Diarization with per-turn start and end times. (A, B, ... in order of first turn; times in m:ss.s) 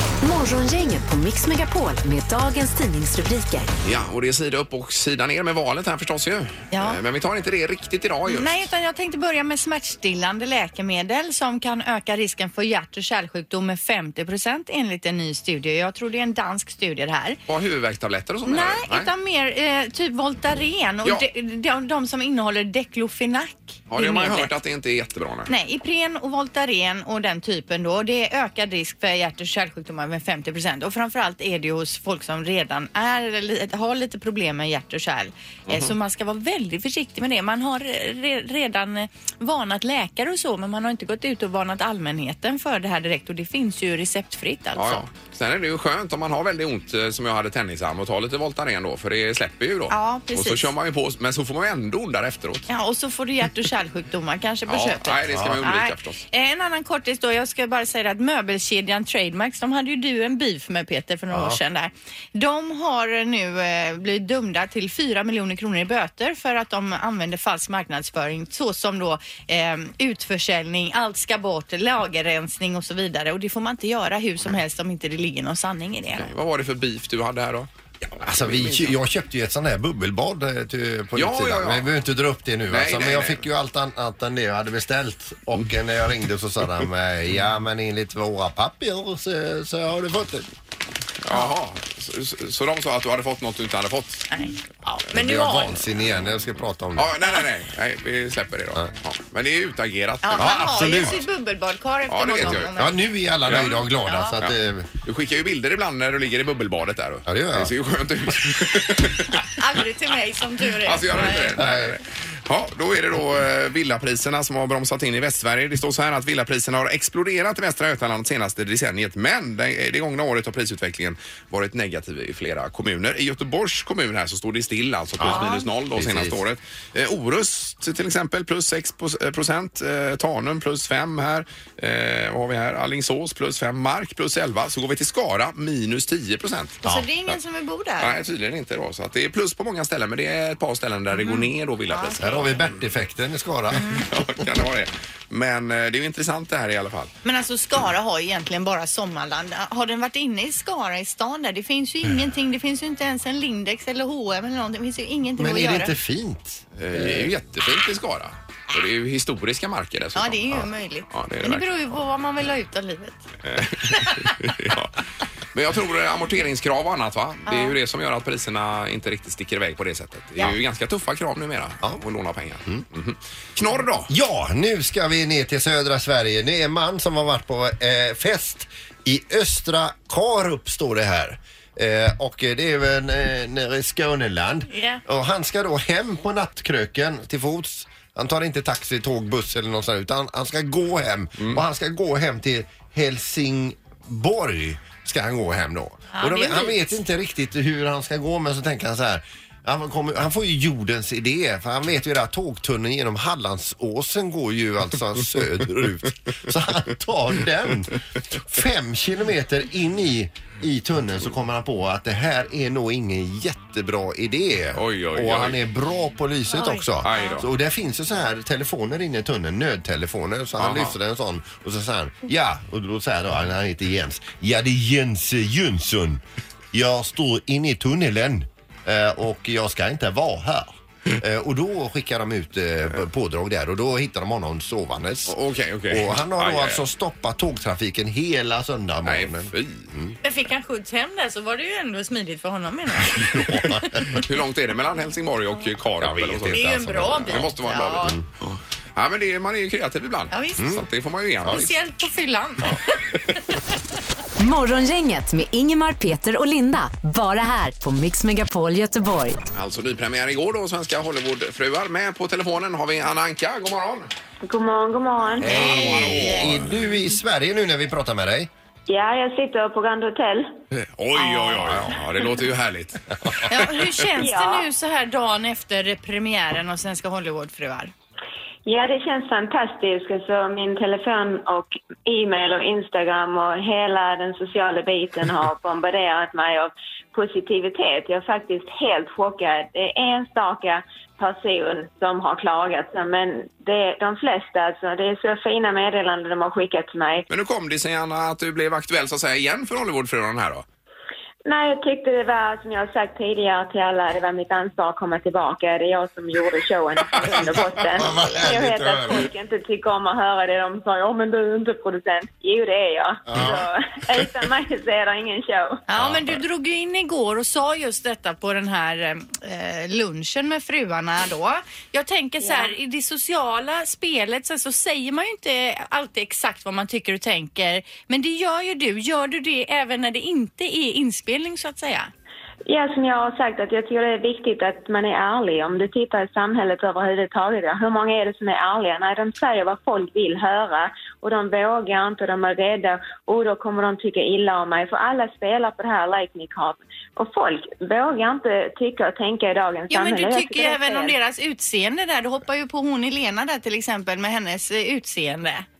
0:00.2-0:03.7 A
0:03.8-0:08.6 B
0:06.7-0:07.0 C
0:08.3-0:17.4 C
0:17.5-0:19.1 B
0:18.4-0:24.5 C
0:23.9-0:25.5 B
0:25.5-0:45.0 C
0:35.7-0:35.9 B
0:44.7-0:52.7 B
0:49.9-0:50.7 C
0:52.7-1:16.3 C
0:54.7-0:56.2 B
0:55.3-0:55.6 D
1:01.3-1:01.6 D
1:16.2-1:19.0 B
1:18.2-1:30.4 D
1:21.2-1:21.9 B
1:22.7-1:23.4 B
1:31.2-1:34.3 B
1:34.8-1:37.1 D
1:35.1-1:35.8 C
1:37.0-1:41.2 B
1:40.2-1:43.0 C
1:40.4-1:41.2 D
1:42.1-1:42.8 B
1:42.4-1:44.9 D
1:43.4-1:43.9 B
1:44.0-1:44.4 C
1:44.4-1:49.5 B
1:47.2-1:47.7 D
1:49.6-1:51.6 C
1:50.8-2:17.4 B
1:51.6-1:52.0 D
2:05.2-2:06.4 D
2:05.2-2:05.6 C
2:16.8-2:18.2 C
2:18.0-2:22.7 B
2:21.1-2:22.4 C
2:22.2-2:24.0 D
2:23.8-2:24.0 C
2:24.1-2:27.1 B
2:27.2-2:35.9 C
2:35.4-2:37.3 D
2:36.8-2:42.0 B
2:40.2-2:43.2 C
2:43.4-2:44.9 B
2:43.8-2:44.3 C
2:45.5-2:54.1 B
2:47.4-2:47.8 C
2:54.1-3:55.4 D
3:04.7-3:05.0 C
3:16.1-3:16.9 C
3:34.7-3:35.6 B
3:36.5-3:37.3 C
3:37.0-3:37.5 B
3:40.6-3:40.9 B
3:55.3-3:56.8 B
3:55.9-4:00.1 D
3:59.0-3:59.9 B
4:00.2-4:04.2 C
4:03.0-4:04.2 D
4:04.1-4:08.2 B
4:06.0-4:08.2 D
4:06.5-4:08.2 C
4:09.0-4:11.7 B
4:10.3-4:10.7 C
4:10.6-4:10.8 D
4:11.4-4:13.0 C
4:14.4-4:19.4 A
4:19.5-4:24.1 B
4:24.4-4:25.7 E
4:25.4-4:28.5 D
4:25.4-4:26.7 B
4:25.5-4:26.5 C
4:28.9-4:30.5 E
4:30.7-4:33.9 B
4:31.1-4:31.8 C
4:33.4-4:37.9 C
4:34.2-4:34.7 E
4:38.6-4:57.2 E
4:57.3-5:00.6 B
5:01.4-5:15.8 E
5:07.9-5:09.3 D
5:13.3-5:13.7 D
5:15.9-5:32.1 C
5:16.0-5:16.3 D
5:32.6-5:51.2 E
5:49.9-5:55.6 C